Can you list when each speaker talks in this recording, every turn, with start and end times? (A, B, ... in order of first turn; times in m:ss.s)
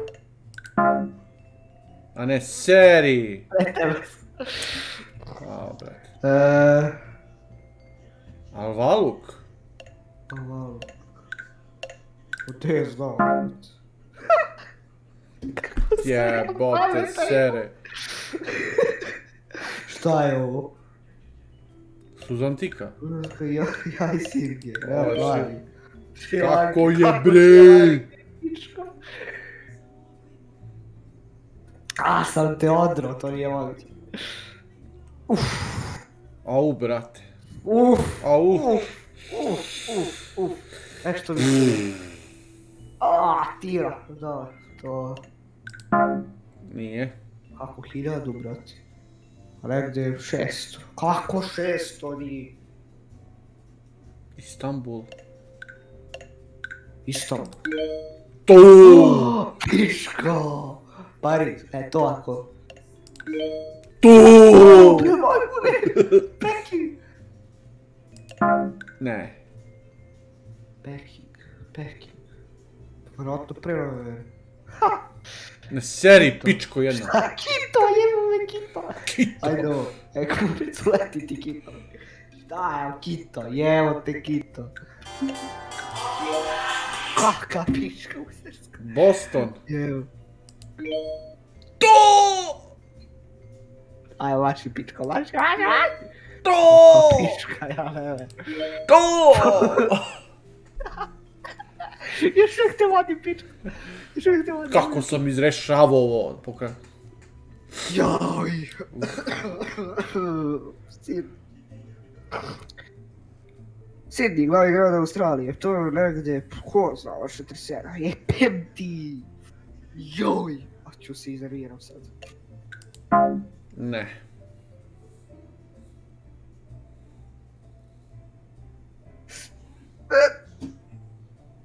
0:02.1-0:03.5 A
0:03.5-0:04.8 B
0:05.4-0:06.0 A
0:06.2-0:07.0 B
0:08.5-0:09.4 A
0:10.3-0:10.9 B
0:12.4-0:13.8 B
0:15.5-0:20.8 B
0:16.0-0:17.8 A
0:22.2-0:23.0 A
0:23.0-0:25.6 B
0:24.8-0:25.5 A
0:26.2-0:29.4 B
0:26.3-0:28.0 A
0:32.0-0:33.9 B
0:35.3-0:36.0 B
0:36.4-0:37.2 A
0:37.6-0:41.9 B
0:38.2-0:38.8 A
0:41.4-0:42.1 A
0:43.0-0:45.2 B
0:46.6-0:47.2 A
0:47.6-0:48.8 B
0:49.6-0:52.6 B
0:54.4-0:55.1 A
0:57.0-0:57.6 B
0:58.4-0:59.4 A
0:58.8-1:02.5 B
1:04.0-1:05.1 A
1:04.5-1:07.0 B
1:09.0-1:09.4 A
1:10.8-1:12.2 B
1:13.2-1:15.0 B
1:15.7-1:17.1 A
1:16.2-1:21.9 B
1:19.0-1:19.8 A
1:22.4-1:24.7 B
1:27.1-1:28.8 B
1:28.8-1:29.6 A
1:29.6-1:30.1 B
1:31.8-1:32.6 A
1:34.2-1:36.0 B
1:36.4-1:37.4 A
1:36.7-1:38.7 B
1:38.9-1:40.2 A
1:39.3-1:39.9 B
1:42.0-1:45.2 B
1:44.7-1:46.8 A
1:47.8-1:51.3 B
1:48.9-1:49.2 A
1:54.1-1:59.3 B
1:59.9-2:02.1 B
2:03.7-2:04.2 A